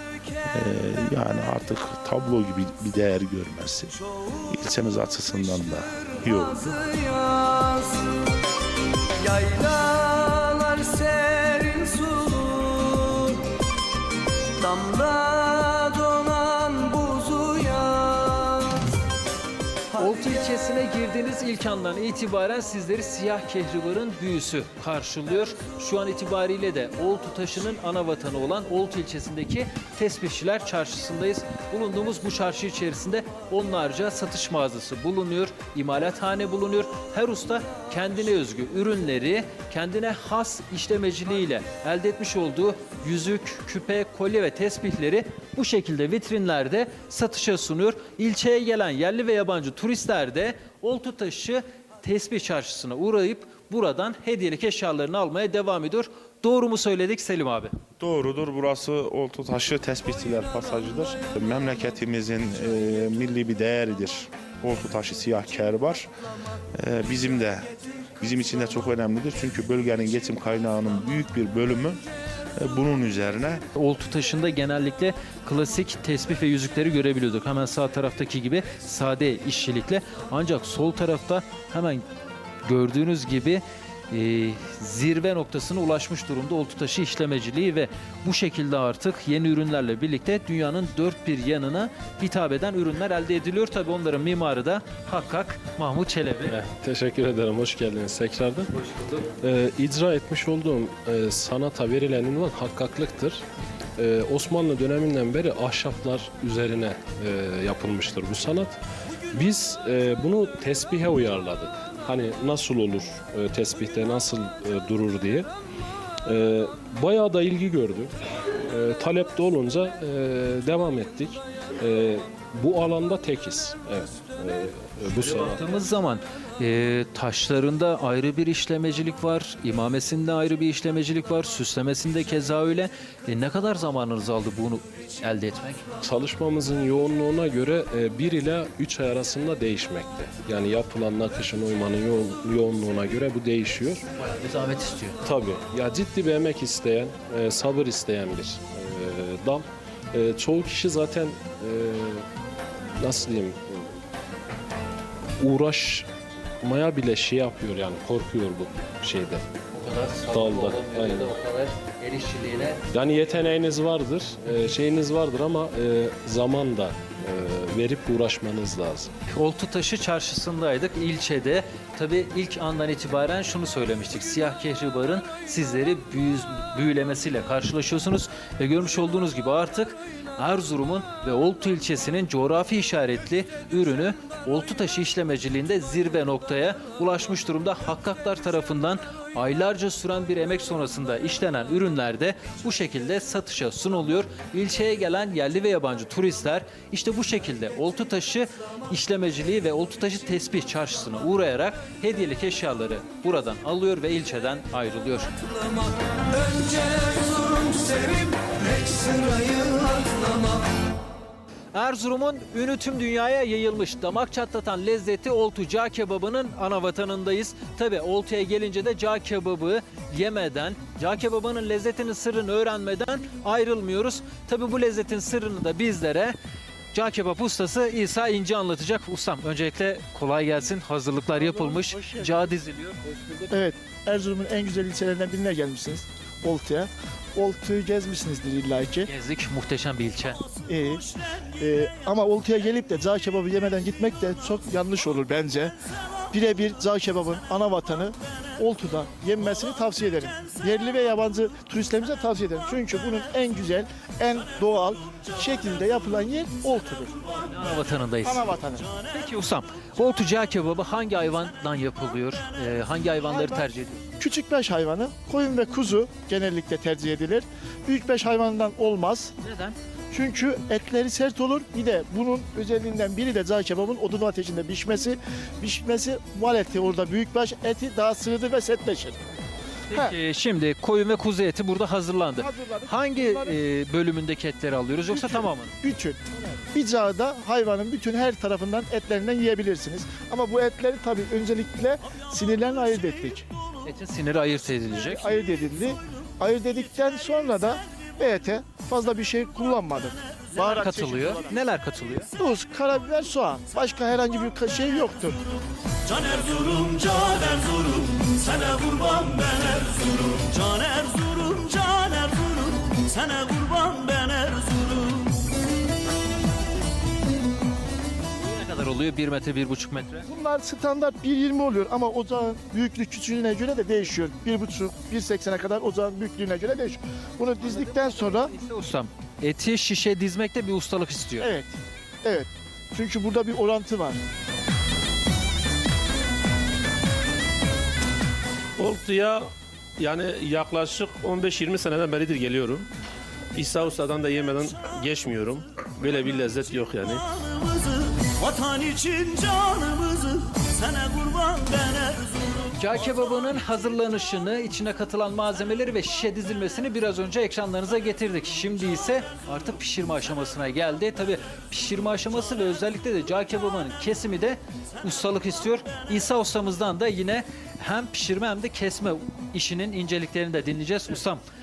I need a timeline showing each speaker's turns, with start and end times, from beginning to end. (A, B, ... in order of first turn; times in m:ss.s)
0:00.4-0:06.8 A
0:06.9-0:08.1 B
0:09.2-0:13.4 B
0:14.6-0:18.8 B
0:20.0-0:57.7 C
0:58.0-1:06.1 A
1:06.8-1:12.0 A
1:12.6-1:13.6 A
1:13.7-1:22.0 C
1:22.6-1:36.6 C
1:36.5-1:38.7 D
1:38.8-1:39.2 C
1:39.3-1:43.4 D
1:44.0-1:48.8 D
1:49.3-1:55.5 D
1:56.2-2:05.6 D
2:05.2-2:15.8 C
2:16.0-2:24.0 D
2:24.2-2:25.2 C
2:25.2-2:32.2 D
2:33.0-2:34.0 D
2:35.4-2:36.1 D
2:36.6-2:39.4 D
2:39.7-2:42.8 C
2:40.3-2:41.3 D
2:42.9-2:49.1 D
2:49.3-3:25.3 C
3:26.4-3:30.6 B
3:31.7-3:46.3 C
3:46.9-3:53.6 C
3:51.3-3:52.5 E
3:53.5-3:59.1 E
3:59.0-4:00.4 C
4:00.7-4:01.1 E
4:01.6-4:05.7 E
4:06.3-4:17.2 E
4:17.5-4:18.5 C
4:18.2-4:18.9 E
4:19.1-4:24.0 C
4:23.2-4:23.6 E
4:24.2-4:29.3 E
4:29.4-4:29.8 C
4:30.1-4:39.2 E
4:39.9-4:45.7 C
4:42.4-4:43.6 E
4:45.1-4:53.4 E
4:53.8-4:55.4 C
4:54.9-5:01.5 E
5:00.5-5:02.3 C
5:02.4-5:05.5 E
5:06.1-5:15.2 F
5:18.4-5:20.2 C
5:20.2-5:28.5 E
5:27.6-5:31.5 C
5:31.4-5:34.2 E
5:38.8-5:39.4 G
5:40.0-5:42.9 G
5:43.5-5:47.2 G
5:47.6-5:52.5 F
5:52.8-6:11.4 C